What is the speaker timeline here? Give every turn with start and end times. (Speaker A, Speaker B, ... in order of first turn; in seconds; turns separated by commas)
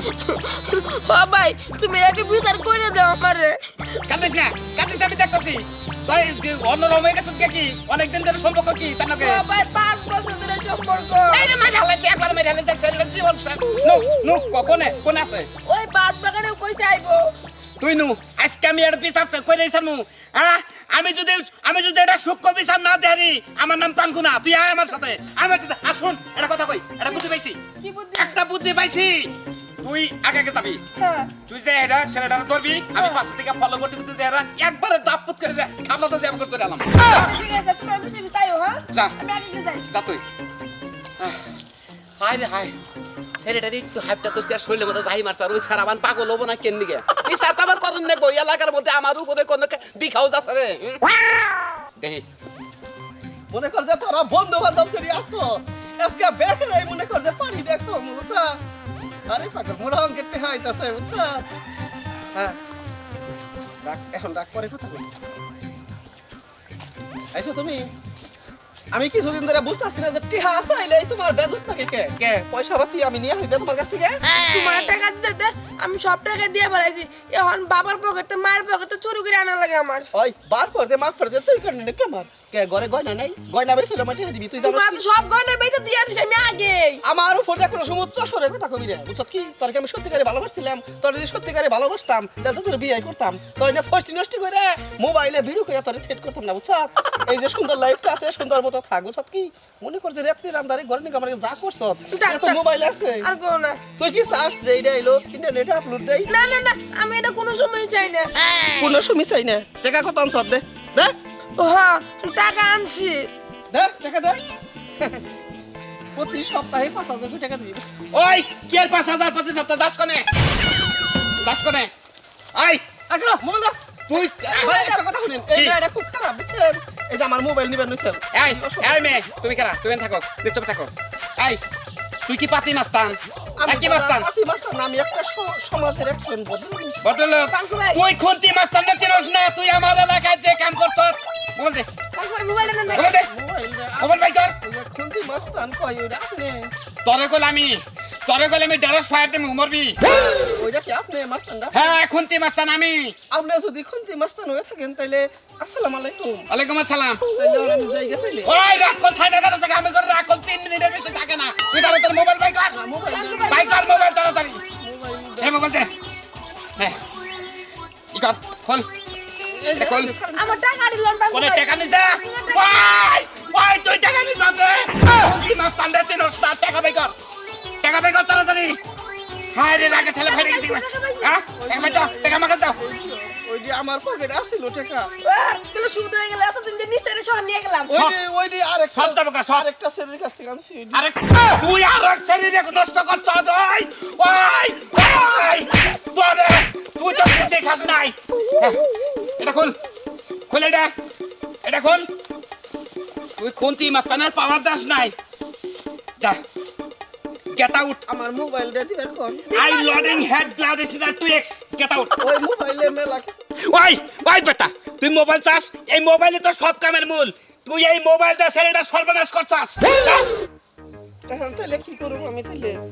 Speaker A: 0.1-3.6, Speaker B: 4.1-9.4, Speaker A: 9.2-11.5, Speaker B: 11.3-15.5, Speaker A: 15.6-17.2, Speaker B: 17.8-27.6, Speaker A: 27.8-28.4, Speaker B: 28.1-30.8, Speaker A: 30.9-31.3, Speaker B: 31.5-37.2, Speaker A: 37.0-39.9, Speaker B: 39.9-40.2, Speaker B: 42.2-42.8, Speaker B: 43.4-51.0, Speaker B: 52.0-52.2, Speaker C: 53.5-58.5, Speaker C: 59.3-61.4, Speaker C: 63.8-65.0, Speaker C: 67.3-67.9, Speaker C: 68.9-74.2, Speaker A: 74.5-80.1, Speaker C: 80.1-85.0, Speaker A: 84.6-87.0, Speaker C: 87.0-103.3, Speaker A: 102.1-102.6, Speaker A: 103.2-103.8, Speaker C: 104.0-106.3, Speaker A: 106.3-108.3, Speaker C: 108.8-111.1, Speaker A: 111.6-113.3, Speaker C: 113.7-114.4, Speaker C: 116.1-117.8, Speaker B: 118.1-120.3, Speaker B: 121.4-121.9, Speaker B: 122.5-122.8, Speaker C: 123.1-123.8, Speaker B: 124.1-124.8, Speaker A: 124.5-125.0, Speaker C: 124.5-129.1, Speaker B: 125.5-125.8, Speaker B: 128.3-131.6, Speaker B: 132.3-134.3, Speaker C: 133.6-137.0, Speaker B: 137.0-141.9, Speaker A: 137.5-138.0, Speaker A: 142.1-143.1, Speaker C: 142.9-146.7, Speaker B: 142.9-143.3, Speaker B: 144.0-144.6, Speaker B: 147.0-150.0, Speaker C: 150.0-152.0, Speaker B: 151.7-153.1, Speaker C: 153.3-156.5, Speaker B: 156.5-157.2, Speaker C: 157.3-158.5, Speaker B: 158.4-162.8, Speaker C: 162.7-163.5, Speaker A: 163.1-164.1, Speaker B: 163.5-164.6, Speaker C: 164.8-165.6, Speaker B: 165.4-165.9, Speaker B: 168.1-168.9, Speaker C: 169.5-170.6, Speaker B: 169.7-170.1, Speaker A: 170.3-172.8, Speaker B: 171.3-177.1, Speaker B: 177.8-178.8, Speaker B: 179.5-182.8, Speaker A: 179.7-181.4, Speaker C: 181.6-185.1, Speaker A: 185.2-188.0, Speaker C: 187.9-191.0, Speaker B: 188.9-189.7, Speaker B: 190.9-198.8, Speaker B: 199.4-199.8, Speaker B: 200.5-200.9, Speaker B: 201.6-202.1, Speaker B: 203.4-205.1, Speaker B: 207.5-208.0, Speaker C: 208.1-209.5, Speaker A: 209.5-210.3, Speaker B: 209.5-212.2, Speaker C: 212.2-213.4, Speaker B: 213.7-220.3, Speaker C: 221.3-222.8